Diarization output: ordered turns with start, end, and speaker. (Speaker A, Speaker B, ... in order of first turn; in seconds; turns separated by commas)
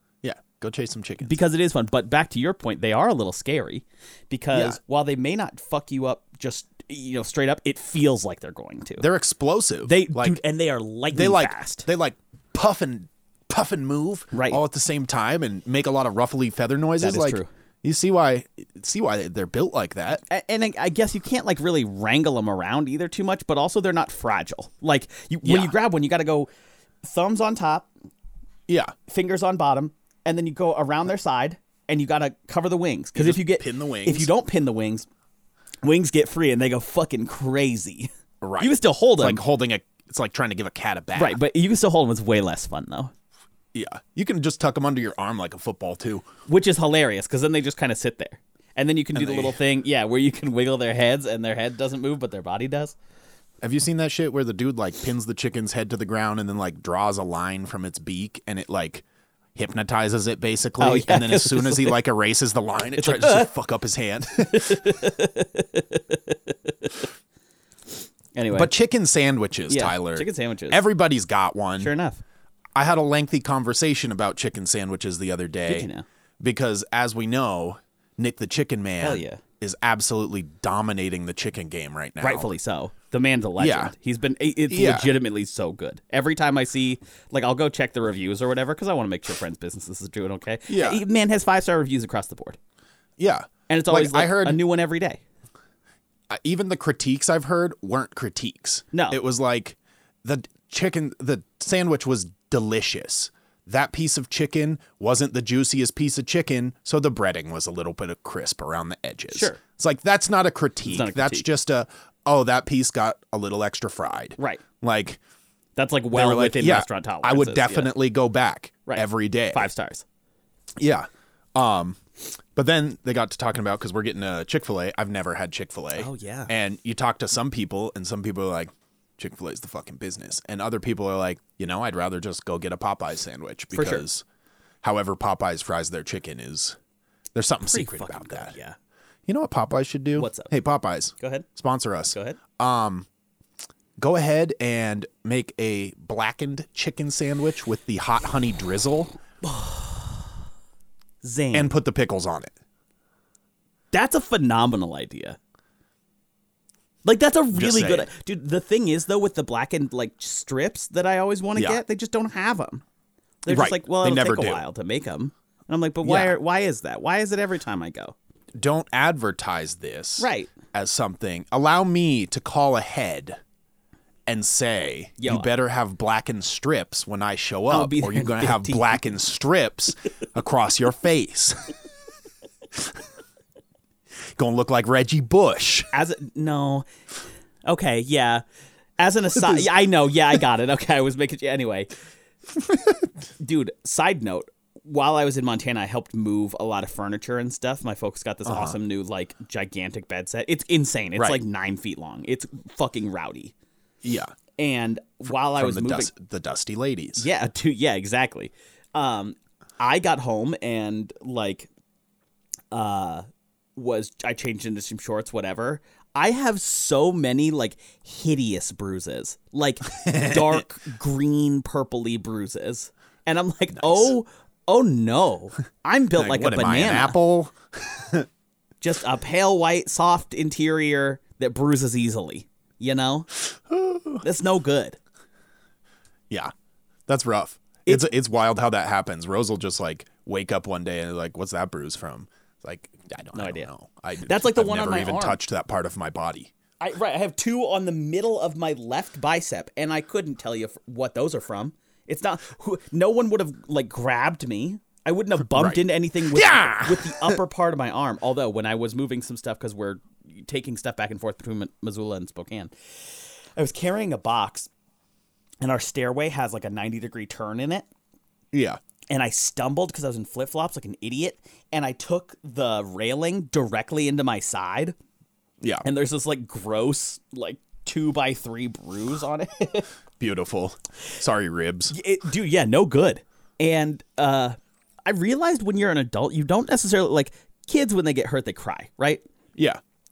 Speaker A: 0.2-1.4, Speaker B: 1.2-9.0, Speaker A: 4.5-4.8, Speaker A: 9.0-10.4, Speaker B: 9.8-11.9, Speaker A: 11.1-20.2, Speaker B: 14.3-14.6, Speaker B: 17.0-17.5, Speaker B: 20.3-26.5, Speaker A: 25.4-25.8, Speaker B: 27.0-27.9, Speaker A: 28.7-28.9, Speaker B: 29.1-35.1, Speaker A: 33.1-34.3, Speaker B: 35.8-39.4, Speaker A: 38.4-41.4, Speaker B: 41.1-43.1, Speaker A: 43.7-46.2, Speaker B: 46.5-53.0, Speaker A: 49.1-49.6, Speaker A: 53.6-59.0, Speaker A: 59.5-65.0, Speaker B: 60.8-62.0, Speaker B: 63.0-63.5, Speaker B: 64.5-67.1, Speaker B: 68.3-68.7, Speaker A: 68.5-71.9, Speaker B: 69.7-70.8, Speaker B: 71.8-72.2, Speaker A: 72.7-75.9, Speaker B: 75.7-76.0, Speaker A: 76.4-82.5, Speaker B: 79.0-79.4, Speaker B: 82.2-92.6, Speaker A: 83.6-83.9, Speaker A: 84.7-85.1, Speaker A: 90.7-91.0, Speaker A: 93.2-94.6, Speaker B: 93.7-95.2, Speaker A: 96.3-115.2, Speaker B: 98.9-99.2, Speaker B: 109.3-109.6, Speaker B: 110.9-111.5, Speaker B: 114.4-114.6, Speaker B: 115.8-117.9, Speaker A: 116.1-119.7, Speaker B: 118.9-120.0, Speaker A: 120.8-134.2, Speaker B: 125.9-126.5, Speaker B: 133.7-134.0, Speaker A: 134.8-136.8, Speaker A: 137.3-138.5, Speaker B: 137.6-138.8, Speaker A: 139.3-143.1, Speaker B: 140.2-140.5, Speaker B: 141.2-141.5, Speaker B: 142.1-142.4, Speaker A: 144.0-149.1, Speaker B: 149.4-150.1, Speaker B: 151.2-151.7, Speaker A: 151.5-152.5, Speaker B: 153.9-155.4, Speaker B: 157.0-162.8, Speaker A: 157.5-158.1, Speaker A: 161.6-161.8, Speaker B: 163.4-168.1, Speaker A: 163.5-164.6, Speaker A: 166.0-166.3, Speaker A: 168.5-173.4, Speaker B: 170.2-170.5, Speaker A: 174.3-181.7, Speaker B: 175.2-175.5, Speaker B: 177.7-179.0, Speaker A: 184.3-185.9, Speaker B: 185.9-186.9, Speaker B: 187.6-188.4, Speaker B: 189.0-191.9, Speaker A: 192.6-193.0, Speaker B: 193.4-203.5, Speaker A: 198.4-198.8, Speaker A: 201.2-201.4, Speaker A: 204.0-204.3, Speaker B: 204.6-206.1, Speaker A: 205.3-207.3, Speaker B: 207.2-211.7, Speaker B: 212.7-227.2, Speaker A: 220.0-220.6, Speaker A: 223.7-224.1, Speaker A: 226.2-228.3, Speaker B: 228.8-233.3, Speaker A: 233.5-234.2, Speaker B: 234.2-235.0, Speaker A: 237.1-246.5, Speaker B: 243.3-243.7, Speaker B: 244.2-245.4, Speaker B: 246.8-264.7, Speaker A: 255.4-257.4, Speaker B: 265.6-267.9, Speaker A: 268.5-268.8, Speaker B: 269.1-274.9, Speaker B: 275.8-279.9, Speaker A: 280.2-281.9, Speaker B: 281.9-289.2, Speaker A: 289.6-289.8